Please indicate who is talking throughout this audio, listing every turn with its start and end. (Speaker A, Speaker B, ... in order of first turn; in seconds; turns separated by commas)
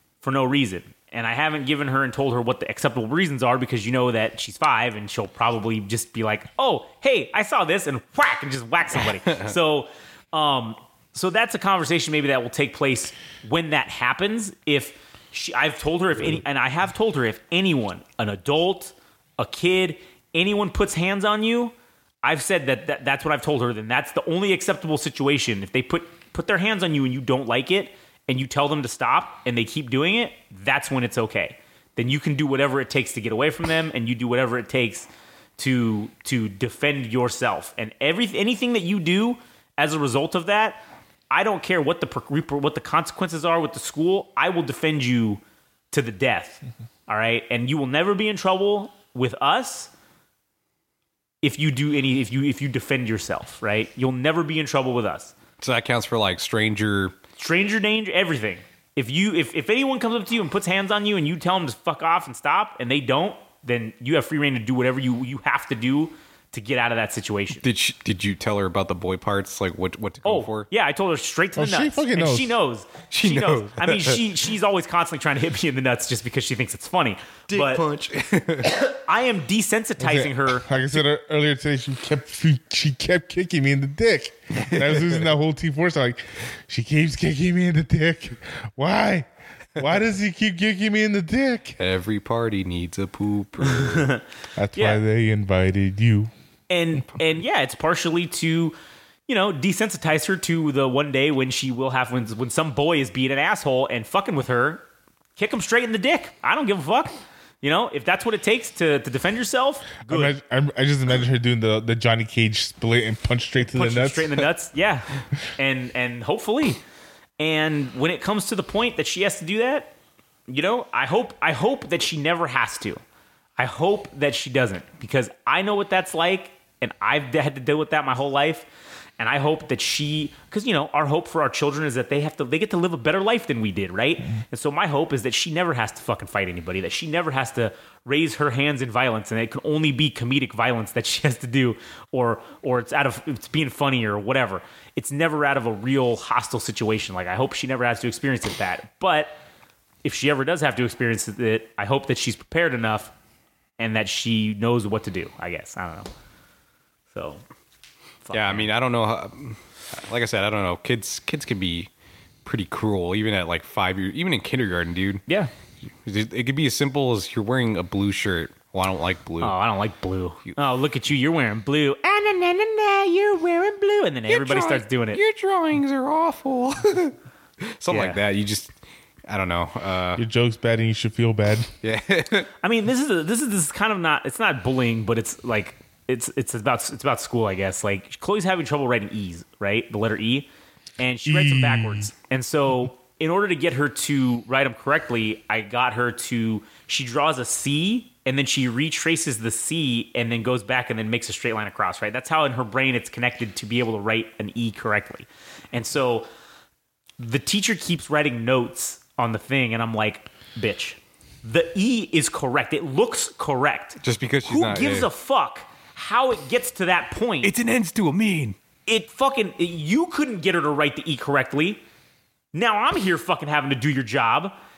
Speaker A: 0.2-49.9, Speaker A: 51.4-55.3, Speaker B: 55.6-57.1, Speaker A: 57.4-67.6, Speaker B: 67.6-70.7, Speaker A: 70.2-77.8, Speaker C: 71.6-72.6, Speaker B: 73.1-74.3, Speaker B: 77.5-78.8, Speaker A: 78.9-80.7, Speaker C: 80.0-91.8, Speaker B: 84.6-85.3, Speaker B: 91.8-94.1, Speaker A: 93.8-94.2, Speaker C: 94.6-96.3, Speaker A: 94.8-95.0, Speaker A: 96.7-98.8, Speaker A: 99.3-104.8, Speaker A: 105.4-110.3, Speaker C: 110.1-114.5, Speaker A: 113.7-116.8, Speaker A: 117.4-119.9, Speaker A: 120.5-123.0, Speaker A: 123.6-128.7, Speaker A: 129.2-149.4, Speaker A: 150.0-153.1, Speaker A: 153.8-156.1, Speaker A: 157.1-157.4, Speaker A: 158.2-158.7, Speaker B: 158.3-161.9, Speaker B: 162.4-165.2, Speaker B: 166.1-169.6, Speaker A: 169.4-175.2, Speaker B: 174.3-178.7, Speaker A: 177.9-178.2, Speaker B: 179.3-180.2, Speaker C: 180.2-181.7, Speaker B: 181.8-182.5, Speaker A: 182.6-206.3, Speaker C: 191.3-192.1, Speaker A: 207.2-217.5, Speaker B: 214.0-215.1, Speaker B: 217.4-218.6, Speaker A: 218.9-221.8, Speaker A: 222.5-224.5